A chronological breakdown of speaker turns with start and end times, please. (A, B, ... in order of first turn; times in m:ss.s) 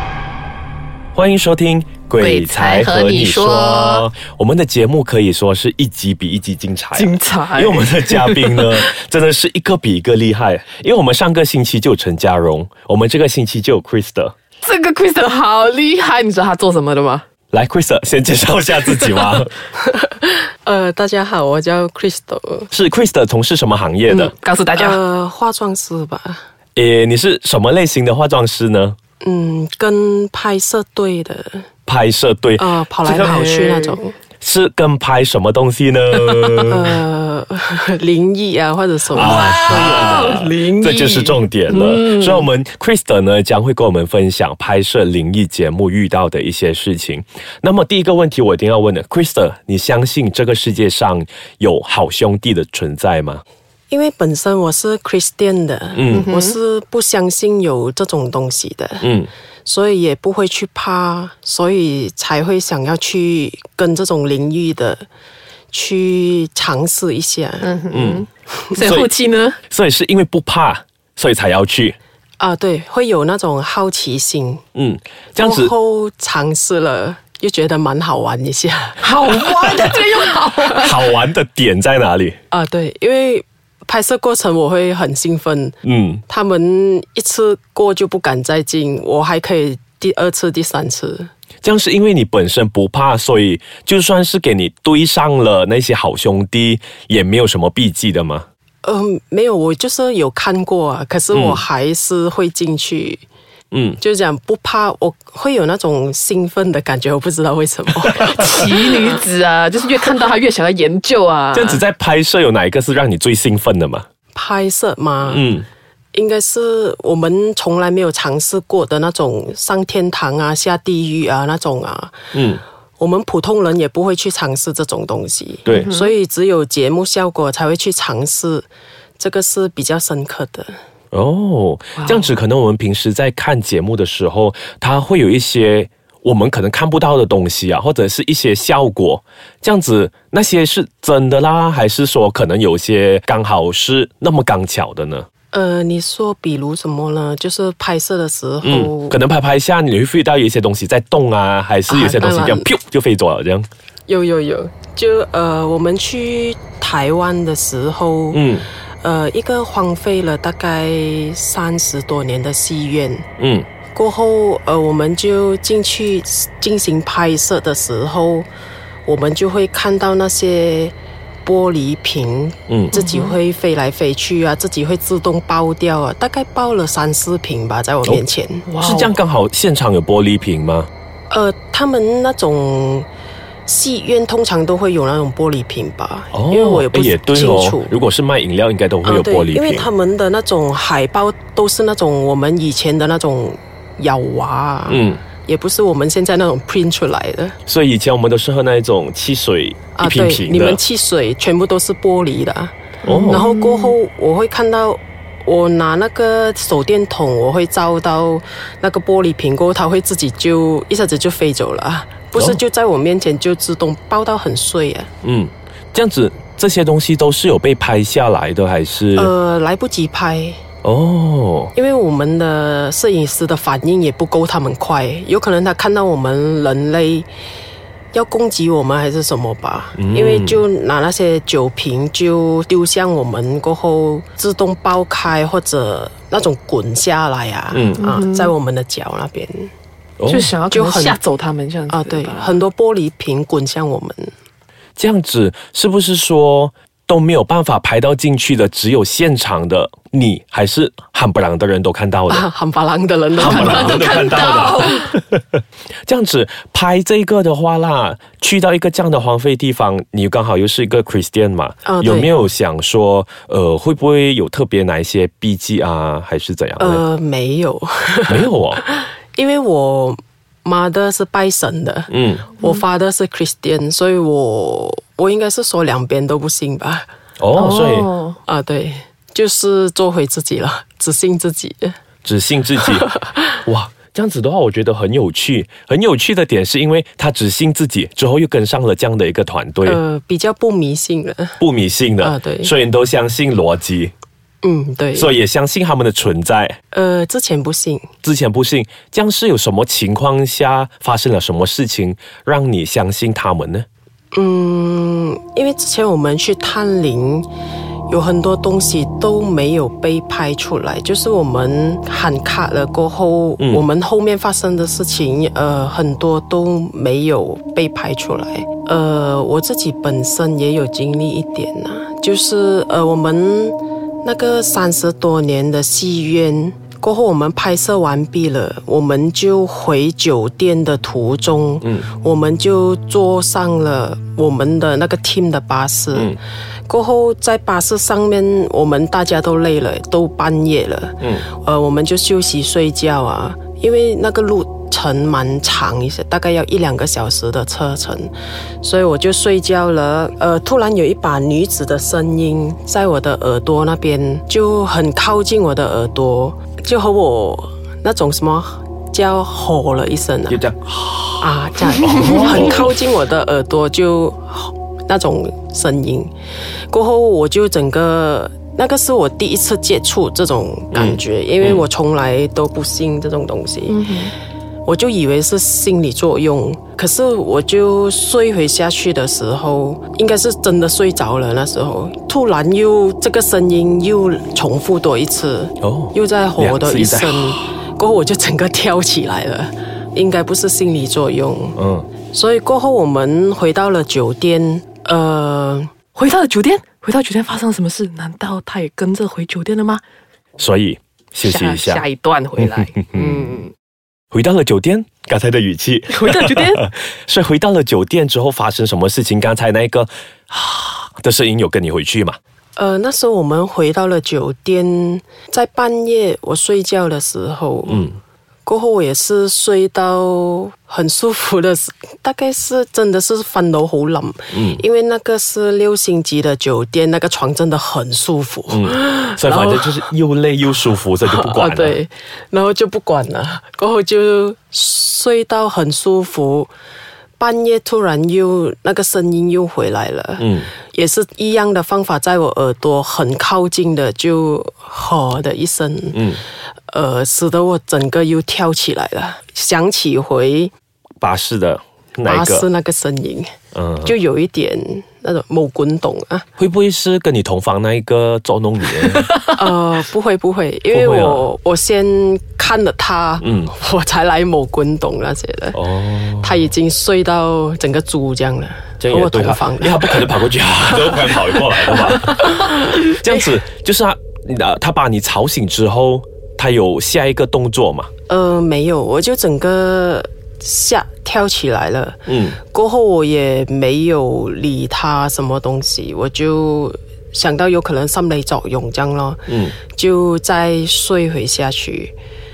0:01.1-0:14.3 A
0:02.2-0:04.1 B
0:06.9-0:08.8 B
0:14.6-0:17.2 B
0:17.5-0:19.5 A
0:19.8-0:22.7 C
0:22.7-0:24.3 A
0:24.1-0:25.0 B
0:24.7-0:26.4 C
0:26.8-0:29.0 A
0:29.2-0:31.6 C
0:31.9-0:33.3 A
0:32.6-0:34.2 C
0:33.0-0:34.0 B
0:34.4-0:37.0 A
0:36.7-0:40.3 C
0:39.1-0:53.4 A
0:39.2-0:42.5 B
0:53.9-0:59.1 C
0:55.9-0:56.3 A
0:56.1-0:56.5 B
0:59.0-0:59.3 A
0:59.6-1:05.0 C
1:05.7-1:07.7 C
1:07.6-1:09.6 B
1:07.9-1:08.2 A
1:08.8-1:09.1 A
1:09.7-1:12.0 A
1:12.4-1:14.6 C
1:14.7-1:15.7 A
1:15.4-1:19.0 C
1:19.0-1:21.0 B
1:19.3-1:20.0 A
1:20.8-1:22.4 A
1:22.5-1:25.8 C
1:25.8-1:26.2 A
1:26.3-1:31.3 C
1:31.6-1:38.4 A
1:38.8-1:43.2 C
1:41.3-1:41.6 A
1:43.7-1:44.0 A
1:44.0-1:48.9 C
1:48.0-1:48.4 A
1:48.2-1:51.8 B
1:51.5-1:54.0 A
1:54.3-1:55.4 C
1:55.2-1:55.6 A
1:56.1-2:02.2 C
2:02.3-2:02.6 A
2:03.0-2:08.7 C
2:05.6-2:05.9 A
2:05.7-2:06.1 B
2:09.2-2:10.7 C
2:11.1-2:25.3 A
2:25.5-2:29.2 C
2:28.6-2:33.7 A
2:31.9-2:32.7 C
2:34.1-2:38.4 C
2:38.3-2:38.7 A
2:39.0-2:43.3 C
2:43.4-2:43.7 A
2:43.9-2:48.5 C
2:49.0-2:58.6 C
2:52.7-2:53.0 A
2:52.9-2:53.4 B
2:58.6-2:59.1 B
2:58.8-3:00.9 A
3:01.3-3:03.1 C
3:03.7-3:07.9 C
3:06.3-3:09.9 A
3:09.0-3:17.6 C
3:14.9-3:15.2 A
3:17.7-3:20.8 A
3:19.9-3:35.1 C
3:23.0-3:23.9 B
3:23.1-3:23.5 A
3:32.4-3:32.6 A
3:35.2-3:39.3 A
3:39.1-3:40.6 C
3:40.8-3:41.7 A
3:41.7-3:47.3 C
3:48.1-3:59.7 C
3:50.0-3:50.6 A
3:57.7-3:58.1 A
3:58.0-3:58.5 B
4:00.2-4:00.5 A
4:00.3-4:02.6 B
4:00.7-4:01.2 C
4:01.9-4:04.3 C
4:05.0-4:12.4 A
4:12.3-4:14.8 C
4:13.4-4:27.0 A
4:13.4-4:15.1 B
4:21.8-4:22.3 C
4:26.8-4:37.1 C
4:28.3-4:28.8 A
4:32.1-4:32.5 A
4:37.4-4:38.1 A
4:37.6-4:38.4 B
4:38.4-4:42.0 C
4:42.2-4:43.1 A
4:43.6-4:50.0 A
4:49.8-4:51.6 C
4:51.6-4:54.1 A
4:52.2-4:52.7 C
4:54.6-4:55.3 C
4:55.1-4:56.8 A
4:56.9-4:58.1 C
4:58.2-5:03.8 A
5:04.3-5:07.5 C
5:08.1-5:36.4 C
5:13.6-5:13.8 A
5:31.8-5:32.1 A
5:36.1-5:36.4 A
5:36.9-6:00.6 C
5:41.2-5:41.4 A
6:00.5-6:02.9 A
6:01.4-6:06.3 C
6:06.9-6:14.1 C
6:10.9-6:11.8 A
6:13.9-6:14.3 B
6:14.8-6:31.8 C
6:25.8-6:27.6 A
6:31.8-6:32.1 A
6:32.3-6:35.9 C
6:36.1-6:40.0 B
6:40.6-6:42.0 A
6:41.4-6:43.7 B
6:42.6-6:43.6 A
6:44.3-6:52.4 A
6:46.1-6:46.8 B
6:52.8-6:58.1 C
6:57.9-6:58.2 A
6:58.6-7:10.1 C
7:04.5-7:04.8 A
7:08.7-7:12.0 A
7:11.3-7:16.7 C
7:17.4-7:26.2 C
7:20.4-7:20.7 A
7:26.1-7:26.4 A
7:26.9-7:30.7 C
7:31.2-7:32.7 A
7:32.2-7:36.4 C
7:33.7-7:34.2 A
7:36.6-7:39.3 A
7:39.5-7:45.8 C
7:40.9-7:41.5 A
7:43.4-7:43.7 A
7:45.7-7:46.7 A
7:46.4-7:50.2 C
7:49.0-7:58.1 A
7:58.3-8:12.1 C
8:02.2-8:02.6 A
8:09.5-8:09.8 A